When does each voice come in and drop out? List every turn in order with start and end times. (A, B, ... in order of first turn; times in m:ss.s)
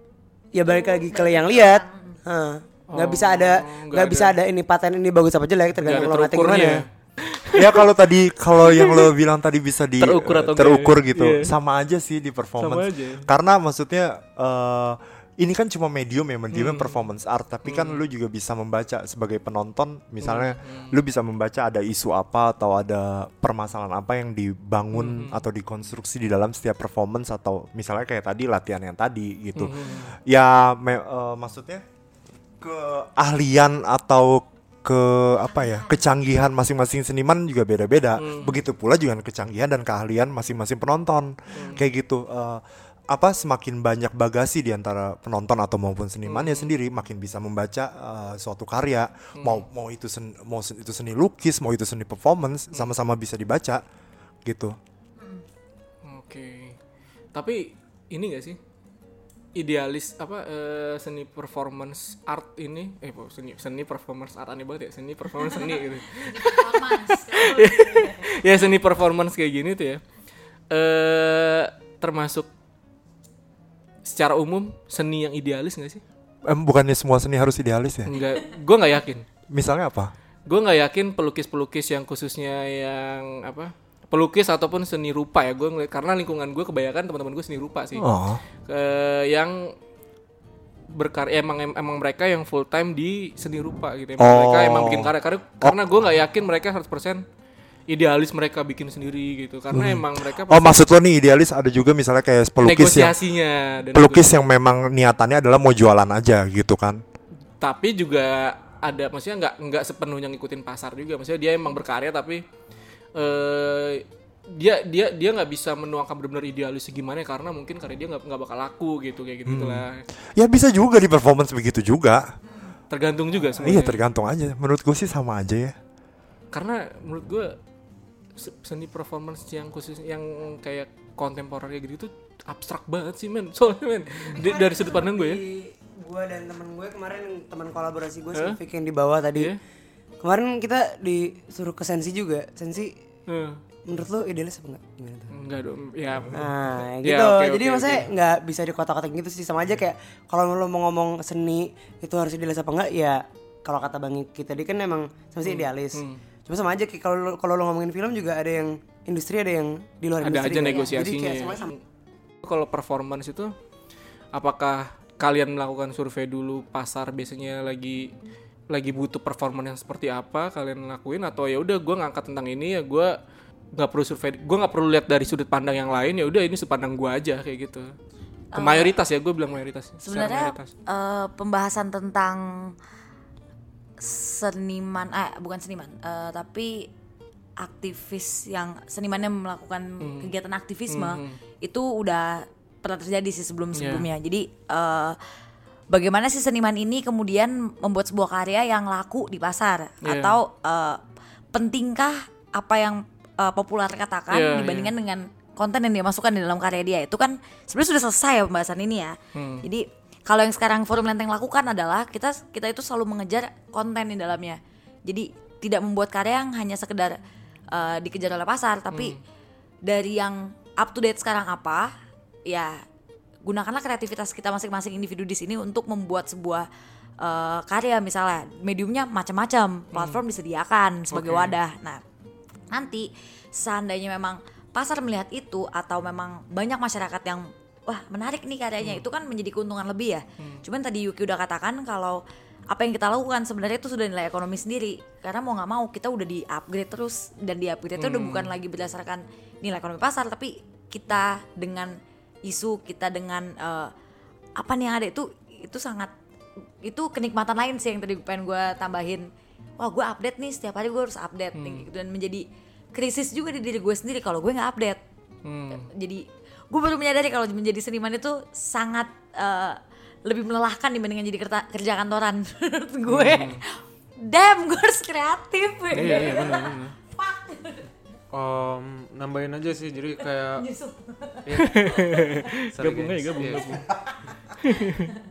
0:00.5-0:06.9 A
0:00.6-0:02.2 B
0:02.9-0:04.4 C
0:05.8-0:07.9 C
0:07.5-0:31.8 D
0:08.6-0:09.1 C
0:10.0-0:11.5 C
0:12.6-0:13.3 C
0:16.5-0:17.0 C
0:17.6-0:18.0 C
0:20.2-0:20.9 C
0:24.9-0:25.4 C
0:29.5-0:30.1 C
0:32.6-0:53.8 D
0:35.6-0:36.0 B
0:38.2-0:38.6 C
0:41.5-0:41.8 C
0:46.2-0:46.7 C
0:49.4-0:49.6 C
0:54.4-0:54.8 D
0:56.0-0:56.8 C
0:57.3-0:58.6 C
0:59.5-1:10.0 C
1:05.4-1:08.4 B
1:10.7-1:12.5 C
1:14.0-1:16.0 C
1:16.4-1:18.1 D
1:18.1-1:19.3 C
1:19.5-1:20.1 D
1:20.4-1:28.1 C
1:27.9-1:28.4 D
1:28.6-1:29.7 C
1:30.9-1:37.2 C
1:34.2-1:35.8 D
1:37.9-1:40.8 C
1:39.7-1:43.1 D
1:42.6-1:44.3 C
1:43.9-1:47.0 D
1:47.6-1:52.4 C
1:53.1-2:00.0 C
1:59.4-2:02.3 D
2:02.9-2:04.0 C
2:03.6-2:05.8 D
2:06.5-2:07.6 C
2:08.3-2:15.4 C
2:14.2-2:19.5 A
2:18.3-2:18.6 C
2:20.2-2:22.9 A
2:23.3-2:23.6 C
2:23.8-2:25.3 A
2:25.3-2:28.1 C
2:26.3-2:41.7 A
2:35.4-2:36.2 C
2:40.2-2:41.8 C
2:40.6-2:41.0 B
2:42.4-2:43.5 C
2:44.3-2:48.1 C
2:48.7-2:53.1 C
2:53.7-2:57.9 C
2:58.5-2:59.0 B
2:58.5-3:00.7 C
3:00.0-3:02.7 B
3:04.0-3:06.9 B
3:07.6-3:15.2 B
3:10.0-3:10.3 C
3:10.9-3:11.4 C
3:13.8-3:14.0 C
3:15.9-3:21.0 B
3:20.0-3:20.4 C
3:21.5-3:37.2 B
3:24.3-3:24.9 C
3:29.3-3:29.6 C
3:37.7-3:39.2 B
3:38.9-3:39.2 C
3:39.8-3:41.9 B
3:42.4-3:42.8 B
3:43.4-3:46.6 B
3:47.2-3:52.0 B
3:49.9-3:50.2 C
3:51.1-3:51.6 C
3:52.7-4:13.9 B
4:08.0-4:08.5 C
4:14.6-4:16.1 B
4:16.8-4:25.0 B
4:21.6-4:21.8 C
4:25.4-4:25.9 C
4:25.7-4:37.8 B
4:33.1-4:33.6 C
4:35.9-4:36.9 C
4:36.0-4:36.5 E
4:38.3-4:40.7 E
4:40.6-4:42.4 B
4:41.4-4:42.0 E
4:41.6-4:43.9 C
4:42.7-4:43.8 E
4:44.6-4:45.1 C